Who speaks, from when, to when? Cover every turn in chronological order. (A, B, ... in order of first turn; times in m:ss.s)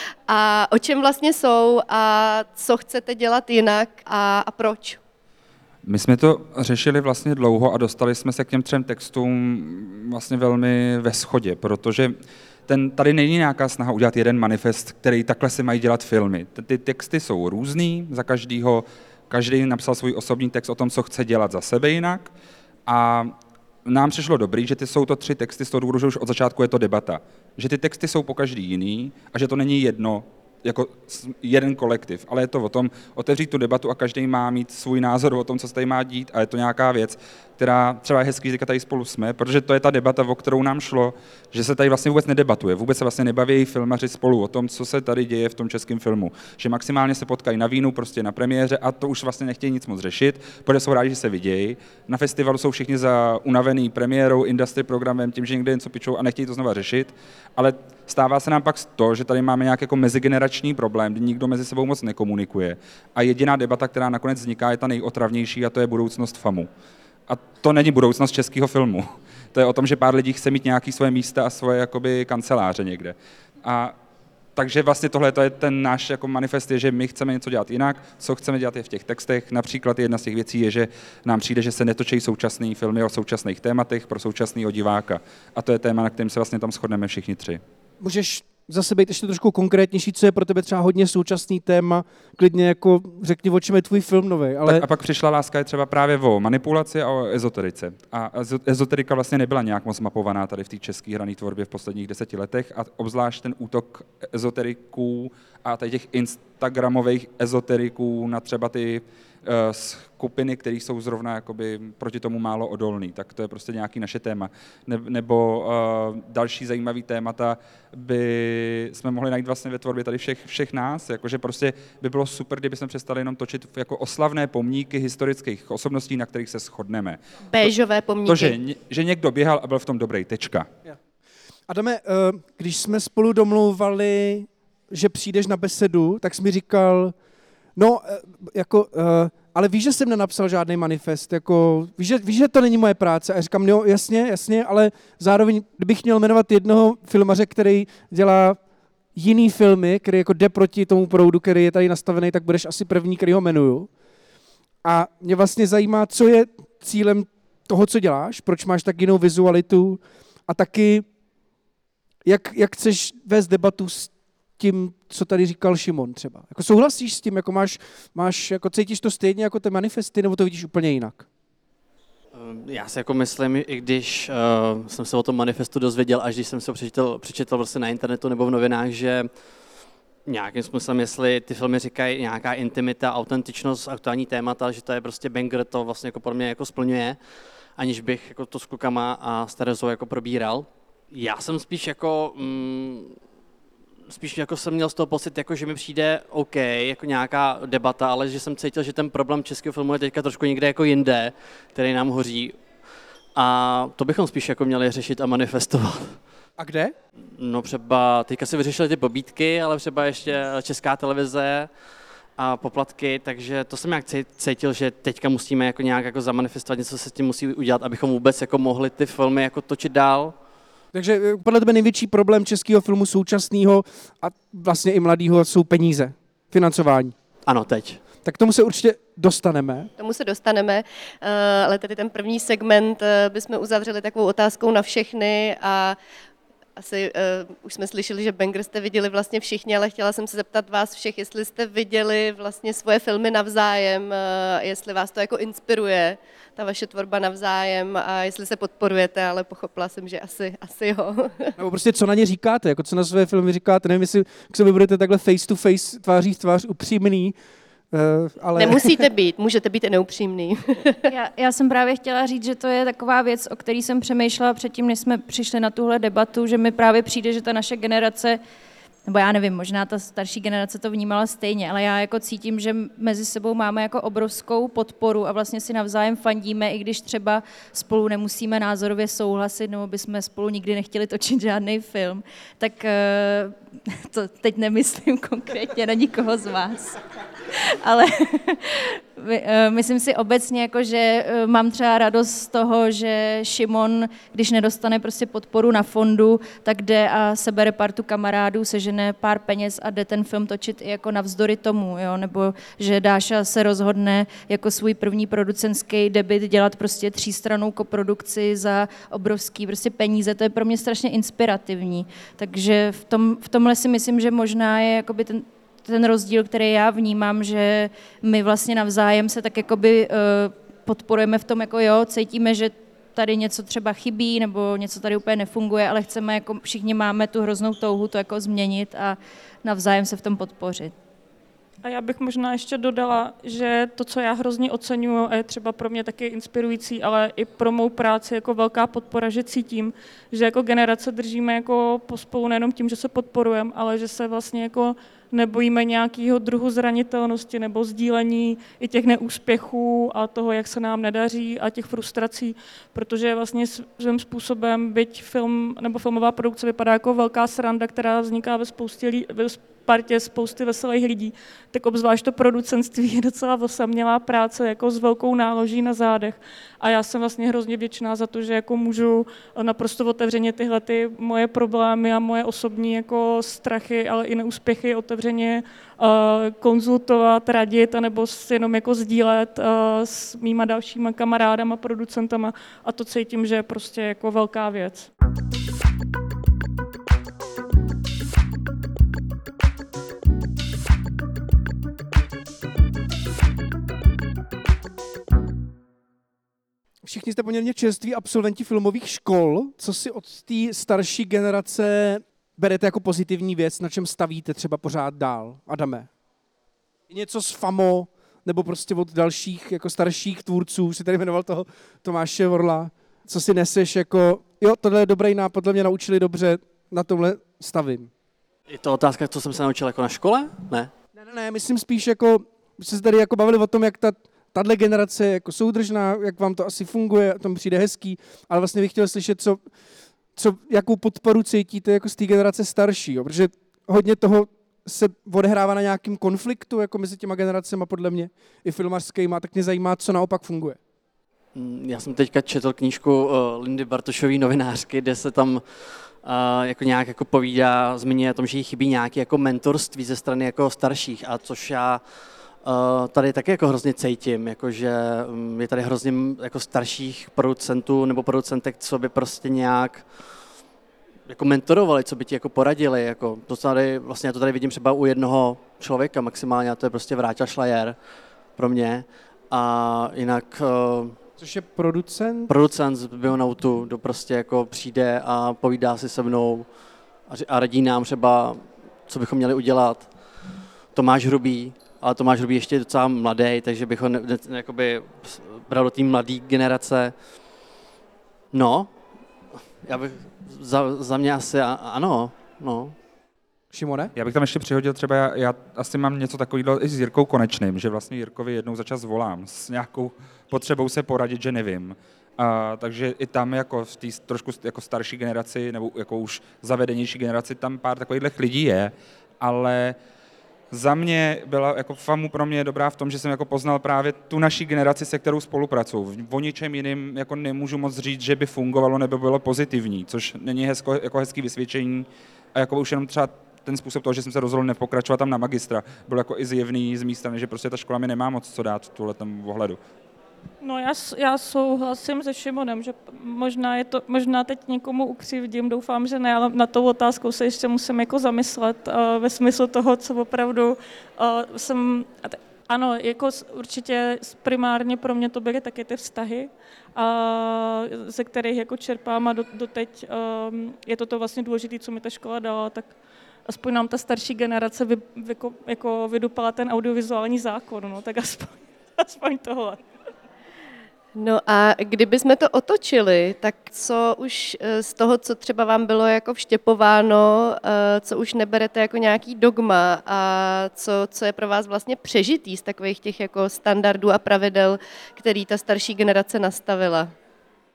0:00.3-0:05.0 A
0:05.8-0:12.1 B
0:12.7-0:22.3 B
0:22.9-1:06.7 B
1:07.3-1:14.0 B
1:14.6-1:27.6 B
1:28.0-1:34.8 C
1:34.7-2:07.7 B
2:07.5-2:08.6 A
2:08.3-2:10.7 B
2:11.7-2:17.1 C
2:17.8-2:28.6 C
2:29.2-2:33.9 C
2:34.8-2:41.1 C
2:42.2-2:51.3 C
2:52.3-2:59.3 D
3:00.3-3:07.2 D
3:07.8-3:13.2 D
3:14.1-3:22.6 D
3:23.4-3:26.2 D
3:26.6-3:27.0 C
3:27.4-3:31.7 D
3:32.4-3:40.4 D
3:40.9-3:47.2 C
3:47.5-3:48.0 D
3:48.2-3:49.9 C
3:50.0-3:56.0 A
3:56.8-4:11.5 A
4:11.6-4:17.4 C
4:17.9-4:19.0 C
4:18.6-4:21.0 A
4:21.1-4:28.4 E
4:29.1-5:30.9 E
5:31.8-6:25.1 F
6:37.0-6:46.1 C
6:47.1-6:58.1 C
6:58.7-7:00.9 D
7:01.1-7:09.6 C
7:10.4-7:20.8 C
7:21.6-7:32.0 D
7:32.6-7:40.2 D
7:41.3-7:48.0 D
7:48.6-7:51.2 D
7:51.4-7:52.5 C
7:52.5-7:56.7 D
7:57.3-8:00.1 D
8:00.9-8:07.2 D
8:08.5-8:08.9 D
8:09.8-8:13.0 D
8:13.7-8:14.1 C
8:14.2-8:30.0 B
8:30.7-8:49.8 B
8:50.6-9:12.9 F
9:13.5-9:19.8 F
9:21.2-9:37.1 A